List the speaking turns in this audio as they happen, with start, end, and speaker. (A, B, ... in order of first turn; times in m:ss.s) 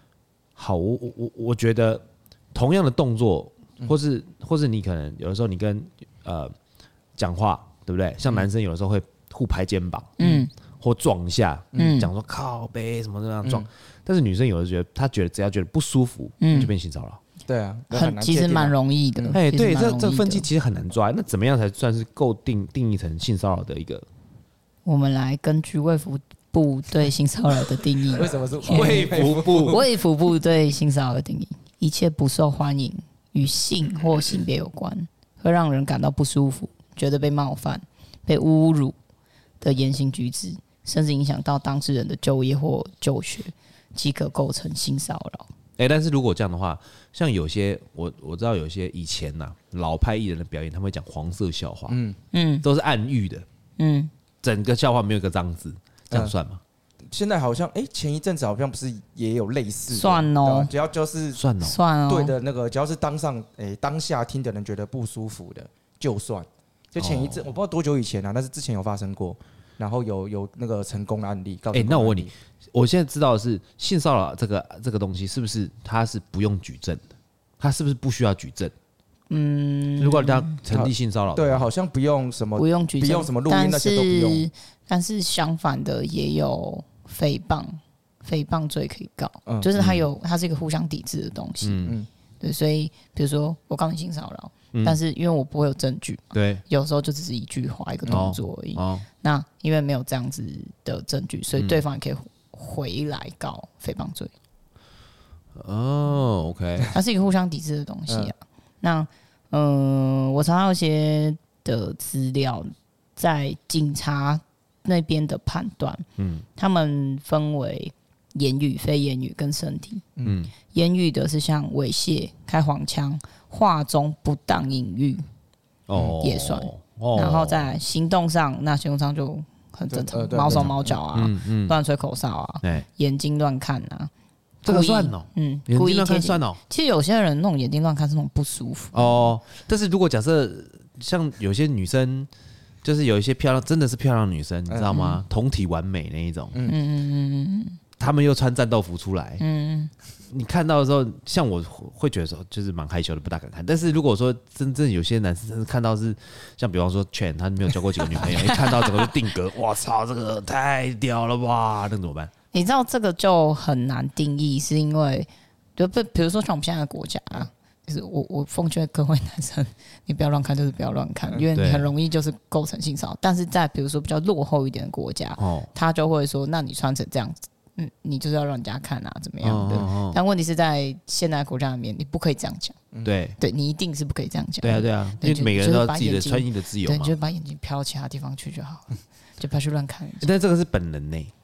0:00.6-0:06.5 A
0:07.2-0:10.1 A
0:10.2-0:10.5 B
0:10.2-0:10.5 C
0:10.8-0:17.2 A
0:11.8-0:12.1 B
0:16.4-0:16.7 B
0:17.5-0:19.4 C
0:17.9-0:20.4 B
0:19.3-0:24.1 A
0:24.8-0:38.9 B
0:28.1-0:29.8 C
0:28.7-0:29.8 A
0:39.6-0:45.5 B
0:45.8-0:52.0 A
0:51.9-0:52.2 C
0:52.3-0:52.6 B
0:52.6-0:53.4 A
0:53.8-0:54.1 B
0:54.4-0:56.6 A
0:57.1-1:01.4 C
0:59.9-1:00.7 B
1:01.3-1:01.8 A
1:01.6-1:02.4 B
1:02.1-1:12.3 C
1:07.0-1:07.5 A
1:11.7-1:17.0 A
1:17.6-1:18.7 A
1:19.3-1:20.6 B
1:20.0-1:21.7 A
1:20.7-1:24.5 C
1:22.6-1:44.3 B
1:29.8-1:30.1 A
1:31.6-1:32.0 A
1:34.7-1:35.0 A
1:36.3-1:36.6 A
1:38.1-1:39.0 A
1:41.5-1:41.8 A
1:45.6-1:46.9 A
1:46.9-1:56.0 B
1:56.2-1:56.4 A
1:56.6-2:00.0 B
2:00.2-2:00.5 A
2:00.7-2:05.2 B
2:05.9-2:07.7 A
2:06.2-2:14.1 B
2:09.9-2:10.9 C
2:10.5-2:11.8 A
2:14.6-2:16.6 A
2:14.6-2:19.3 B
2:18.9-2:22.3 A
2:22.8-2:26.6 A
2:24.7-2:25.0 C
2:24.9-2:25.2 B
2:26.6-2:27.8 B
2:28.0-2:29.4 A
2:29.4-2:29.9 B
2:30.3-2:42.3 A
2:38.2-2:39.1 B
2:42.5-3:02.8 B
2:51.6-2:51.9 A
2:55.4-2:55.7 A
2:59.4-3:00.2 A
3:03.0-3:03.4 A
3:03.4-3:10.3 B
3:04.6-3:07.2 A
3:10.2-3:11.3 A